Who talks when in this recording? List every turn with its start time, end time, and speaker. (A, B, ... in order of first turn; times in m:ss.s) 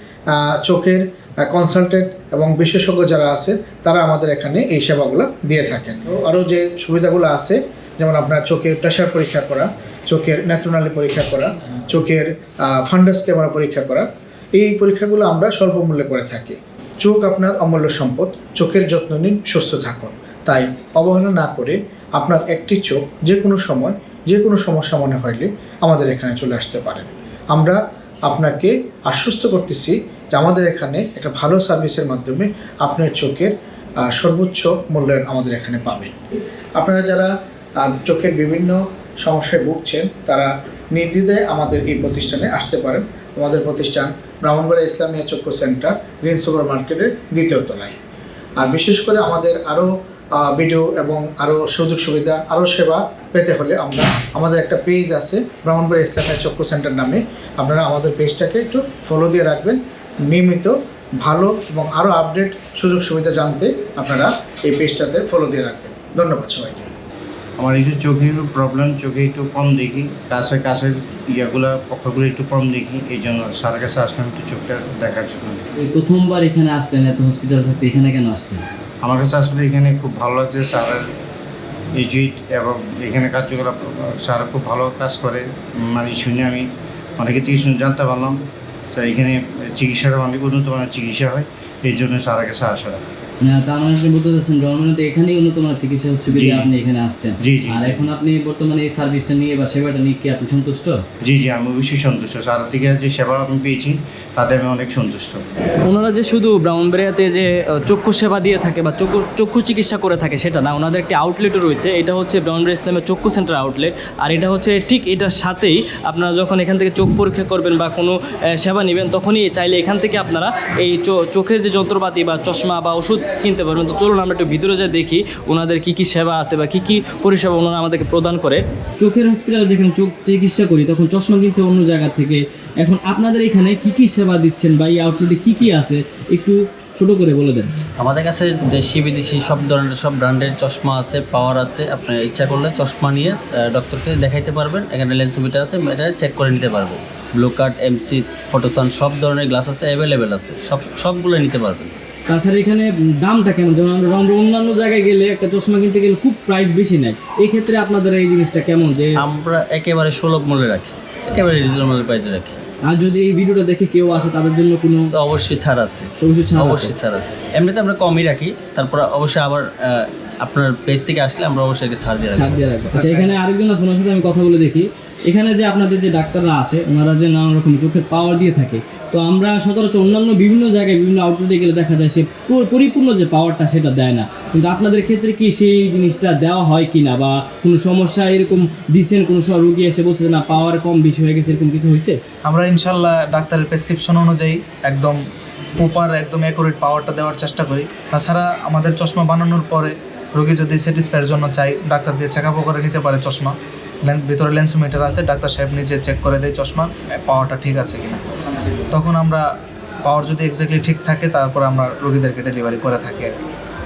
0:00.3-0:36.2 A
0:36.8-0:48.0 A
0:48.6-1:06.9 A
1:07.6-1:15.6 B
1:15.8-1:18.7 C
1:19.0-1:21.0 B
1:22.0-1:33.0 B
1:33.4-1:41.0 C
1:36.3-1:36.7 B
1:37.4-1:38.1 B
1:41.2-1:45.5 B
1:45.8-2:17.7 C
2:18.0-2:32.0 D
2:32.3-2:39.2 C
2:39.2-2:42.6 D
2:42.9-2:45.1 C
2:45.1-2:52.6 D
2:46.2-2:46.9 C
2:52.4-3:12.2 C
2:52.9-2:53.3 E
3:12.4-3:15.2 E
3:15.8-3:28.3 E
3:28.9-3:29.5 E
3:30.0-3:33.4 E